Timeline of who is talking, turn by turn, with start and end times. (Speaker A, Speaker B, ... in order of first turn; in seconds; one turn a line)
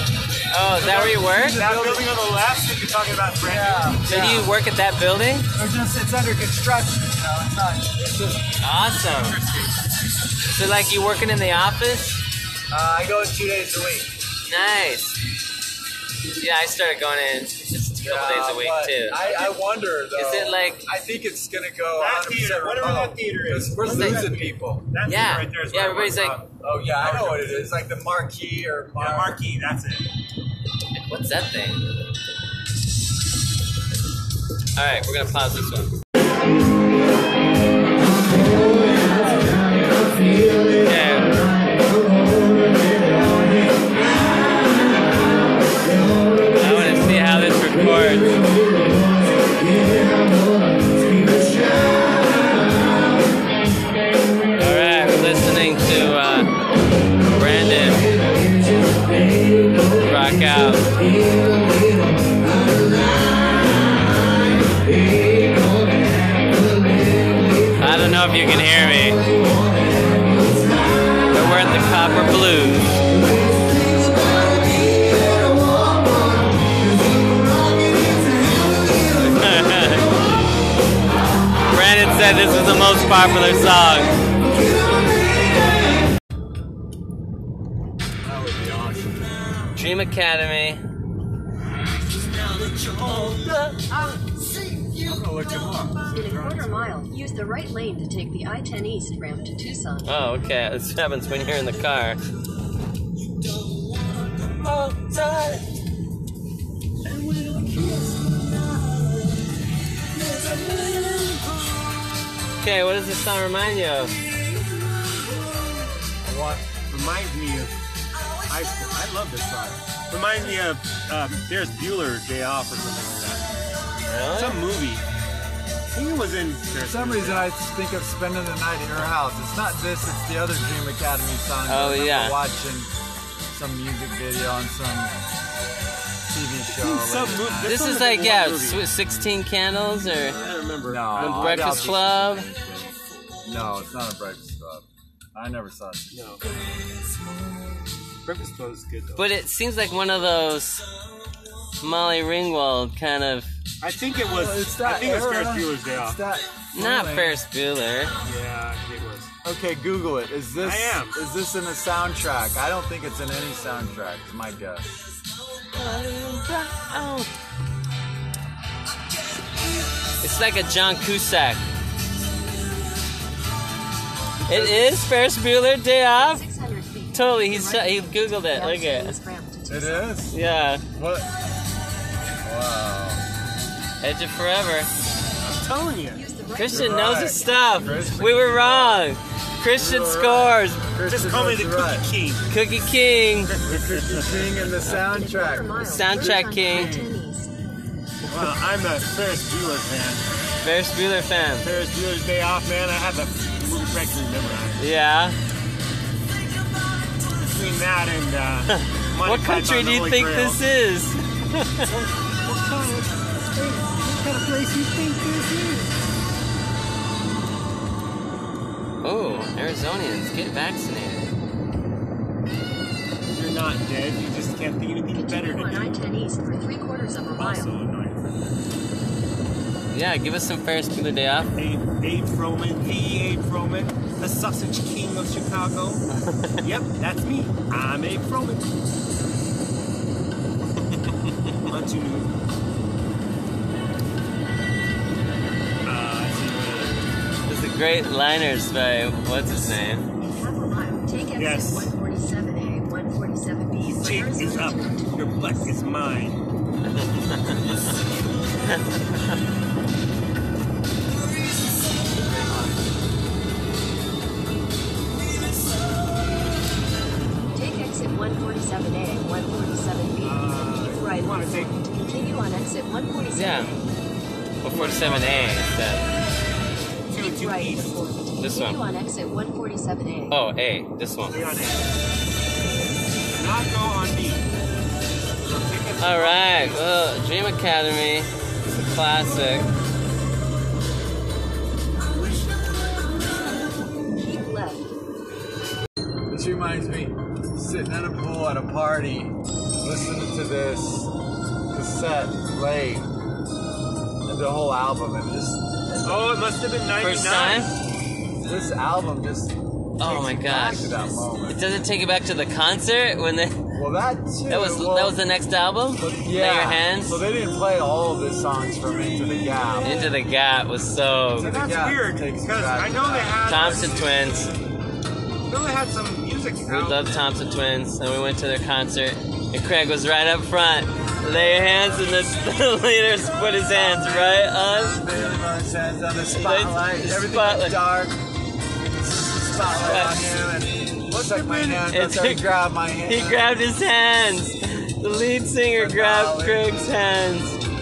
Speaker A: 0.5-1.6
Speaker B: 0.8-4.0
Speaker C: 0.8-2.1
Speaker C: 3.4-4.5
Speaker A: 4.0-5.5
Speaker C: 5.5-8.5
Speaker A: 8.6-9.4
Speaker A: 10.5-12.2
Speaker C: 12.7-14.2
Speaker A: 14.4-15.2
Speaker A: 16.4-19.5
Speaker C: 18.0-24.9
Speaker A: 20.1-20.9
Speaker B: 21.9-27.7
Speaker A: 23.9-24.2
Speaker A: 25.0-26.4
Speaker C: 26.6-29.4
Speaker B: 28.9-30.1
Speaker A: 30.9-31.9
Speaker A: 34.8-35.9
Speaker A: 40.7-41.4
Speaker A: 46.5-48.4
Speaker A: 54.6-56.5
Speaker A: 57.3-58.1
Speaker A: 59.9-60.9
Speaker A: 67.8-69.2
Speaker A: 71.3-73.0
Speaker A: 79.1-80.1
Speaker A: 81.7-84.2
Speaker C: 88.2-89.3
Speaker A: 89.7-90.8
Speaker C: 92.5-96.9
Speaker D: 96.1-100.3
Speaker A: 100.0-102.2
Speaker A: 104.5-105.6
Speaker C: 110.3-110.7
Speaker A: 112.6-114.2
Speaker C: 116.2-116.6
Speaker B: 116.9-117.8
Speaker B: 118.5-123.5
Speaker A: 124.0-124.6
Speaker B: 124.3-125.0
Speaker B: 125.9-127.5
Speaker C: 126.8-132.9
Speaker A: 131.7-132.4
Speaker C: 133.5-135.1
Speaker C: 136.3-137.8
Speaker B: 136.7-138.9
Speaker A: 137.7-140.4
Speaker B: 140.2-142.0
Speaker C: 140.8-146.5
Speaker A: 141.1-142.5
Speaker B: 146.1-146.4
Speaker B: 148.2-149.3
Speaker A: 149.2-150.9
Speaker A: 151.8-153.5
Speaker B: 153.8-156.2
Speaker C: 154.2-157.4
Speaker A: 156.7-158.1
Speaker B: 158.2-159.3
Speaker C: 159.4-165.1
Speaker B: 160.6-161.2
Speaker A: 165.7-167.3
Speaker A: 170.2-171.6
Speaker A: 174.5-176.4
Speaker C: 174.5-174.9
Speaker D: 176.1-180.2
Speaker A: 177.1-179.2
Speaker C: 179.7-180.4
Speaker A: 180.3-180.8
Speaker C: 180.9-181.3
Speaker C: 182.4-183.2
Speaker A: 184.0-184.9
Speaker B: 185.4-186.2
Speaker D: 186.1-188.3
Speaker A: 186.5-190.9
Speaker C: 186.7-189.0
Speaker C: 189.7-192.1
Speaker B: 191.1-192.5
Speaker A: 192.5-193.5
Speaker B: 193.4-194.7
Speaker C: 193.6-197.1
Speaker D: 194.9-197.5
Speaker A: 195.8-196.9
Speaker B: 198.2-200.3
Speaker A: 200.6-201.7
Speaker B: 201.6-204.8
Speaker A: 204.8-205.4
Speaker B: 207.2-210.6
Speaker A: 208.7-212.0
Speaker B: 212.4-215.9
Speaker A: 219.0-221.3
Speaker B: 223.3-226.0
Speaker D: 225.1-227.8
Speaker B: 227.3-228.6
Speaker A: 229.9-231.5
Speaker B: 231.6-236.1
Speaker A: 236.1-236.7
Speaker B: 236.6-239.0
Speaker B: 241.6-242.3
Speaker B: 245.8-247.1
Speaker A: 247.5-250.1
Speaker D: 250.3-255.6
Speaker B: 251.4-251.9
Speaker B: 253.8-256.4
Speaker A: 256.8-257.8
Speaker A: 258.7-259.2
Speaker D: 267.5-273.8
Speaker B: 270.2-271.8
Speaker A: 273.3-273.8
Speaker A: 274.6-276.0
Speaker B: 274.7-275.7
Speaker B: 277.1-278.0
Speaker D: 277.2-280.4
Speaker A: 278.4-278.8
Speaker A: 280.3-281.4
Speaker B: 281.2-281.9
Speaker B: 283.3-284.5
Speaker B: 285.4-286.9
Speaker A: 286.0-289.7
Speaker D: 294.1-294.9
Speaker C: 296.3-301.1
Speaker C: 301.7-303.1
Speaker C: 304.2-306.3
Speaker B: 306.0-307.7
Speaker A: 307.0-307.7
Speaker C: 308.4-311.6
Speaker A: 310.0-313.6
Speaker C: 313.7-315.2
Speaker A: 314.5-317.2
Speaker C: 316.0-320.1
Speaker A: 319.8-321.5
Speaker C: 321.4-323.9
Speaker B: 321.4-324.4
Speaker A: 323.4-324.5
Speaker B: 325.5-327.3
Speaker A: 326.6-335.0
Speaker C: 333.7-338.2
Speaker A: 336.3-337.9
Speaker C: 339.2-343.5
Speaker A: 339.8-340.3
Speaker B: 341.1-341.9
Speaker A: 341.9-347.6
Speaker C: 345.7-346.8